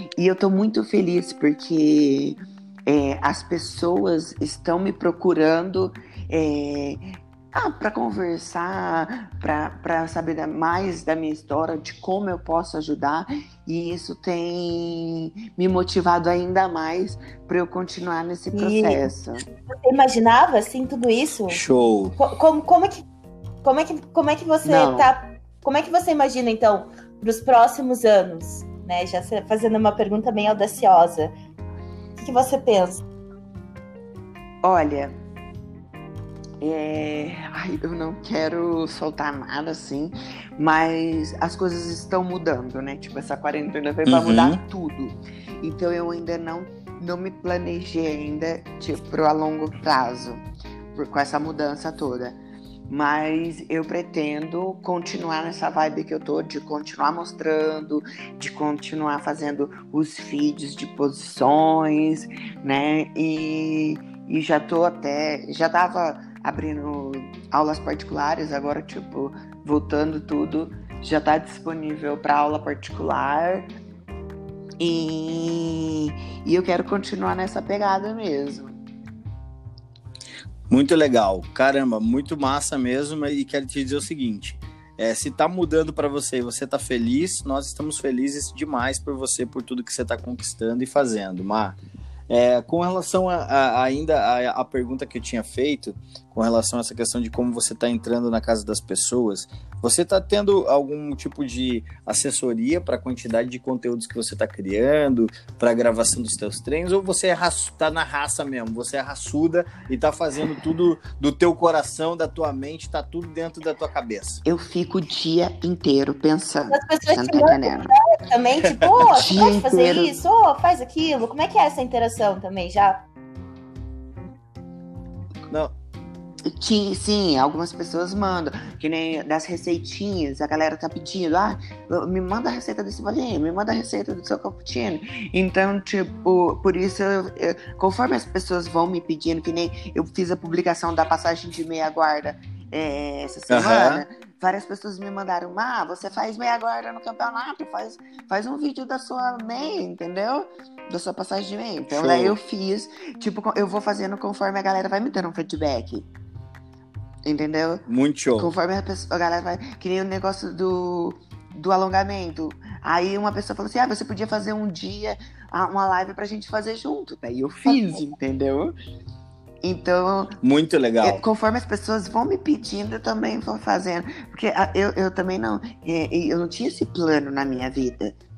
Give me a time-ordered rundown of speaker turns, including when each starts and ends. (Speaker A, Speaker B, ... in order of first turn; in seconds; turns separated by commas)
Speaker A: 0.2-19.4, Speaker B: 18.5-19.1, Speaker B: 19.7-21.6, Speaker C: 21.5-22.1, Speaker B: 22.2-23.0, Speaker B: 23.6-31.3, Speaker A: 24.6-25.1, Speaker B: 32.2-33.0, Speaker A: 34.6-35.1, Speaker A: 36.6-50.4, Speaker C: 44.1-44.6, Speaker A: 51.0-52.4, Speaker A: 52.9-73.7, Speaker A: 74.8-78.8, Speaker C: 80.7-91.8, Speaker C: 92.3-114.4, Speaker A: 114.5-117.9, Speaker B: 116.7-123.0, Speaker C: 118.6-119.1, Speaker A: 119.1-120.2, Speaker A: 126.4-156.1, Speaker C: 143.5-144.0, Speaker C: 151.9-152.4, Speaker A: 157.2-157.9, Speaker C: 157.9-158.5, Speaker A: 158.4-168.8, Speaker A: 169.6-170.4, Speaker C: 170.4-171.2, Speaker A: 171.0-178.2